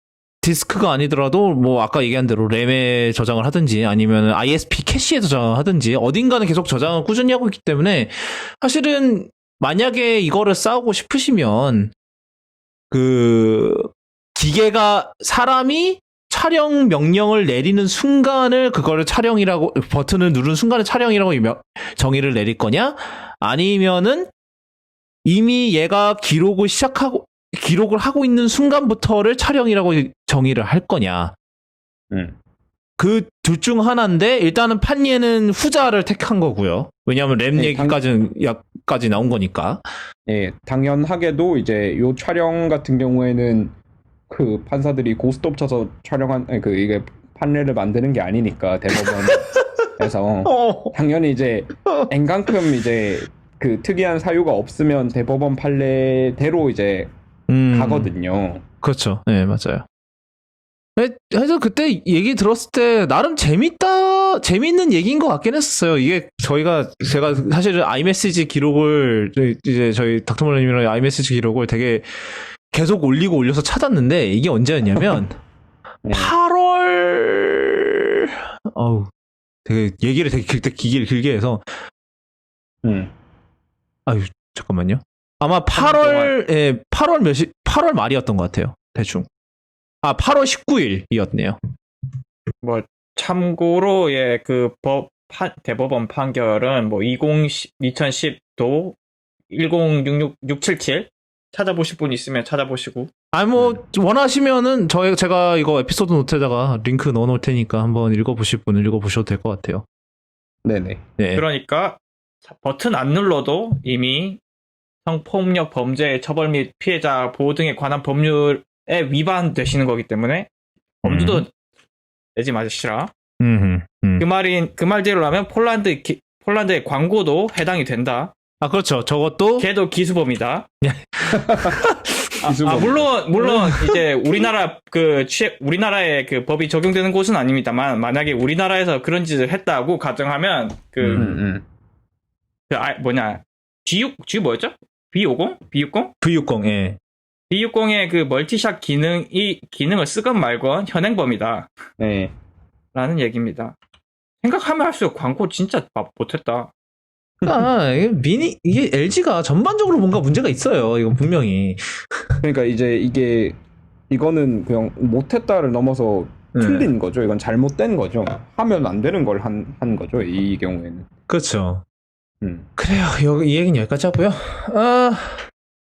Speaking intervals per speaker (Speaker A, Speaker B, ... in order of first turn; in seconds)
Speaker A: 0.4-11.9, 12.9-24.3, 25.2-31.3, 33.0-39.8, 49.0-49.9, 50.4-50.9, 57.5-58.1, 58.8-59.8, 61.0-75.3, 76.1-79.1, 79.6-81.6, 84.0-89.3, 90.0-91.6, 103.3-109.8, 111.2-111.4, 121.0-121.4, 123.4-124.2, 128.6-129.7, 130.8-132.3, 133.4-133.9, 141.0-141.4, 146.2-147.0, 157.4-162.4, 166.5-166.9, 171.3-171.8, 172.8-175.4
Speaker B: 37.5-38.0, 40.3-43.7, 44.3-57.1, 57.7-58.6, 76.0-76.3, 82.8-83.1, 110.6-111.0, 131.3-131.9, 132.4-133.2, 141.2-141.6, 152.0-152.3, 157.4-157.7, 162.4-163.6, 164.1-171.1, 172.4-172.7
Speaker C: 85.7-86.3, 92.6-99.0, 99.5-103.1, 111.3-114.4, 115.0-120.5, 121.0-121.5, 122.3-123.1, 124.2-128.3, 129.6-130.7, 132.4-141.3, 142.7-146.1, 147.5-151.7, 152.9-153.8, 154.4-156.7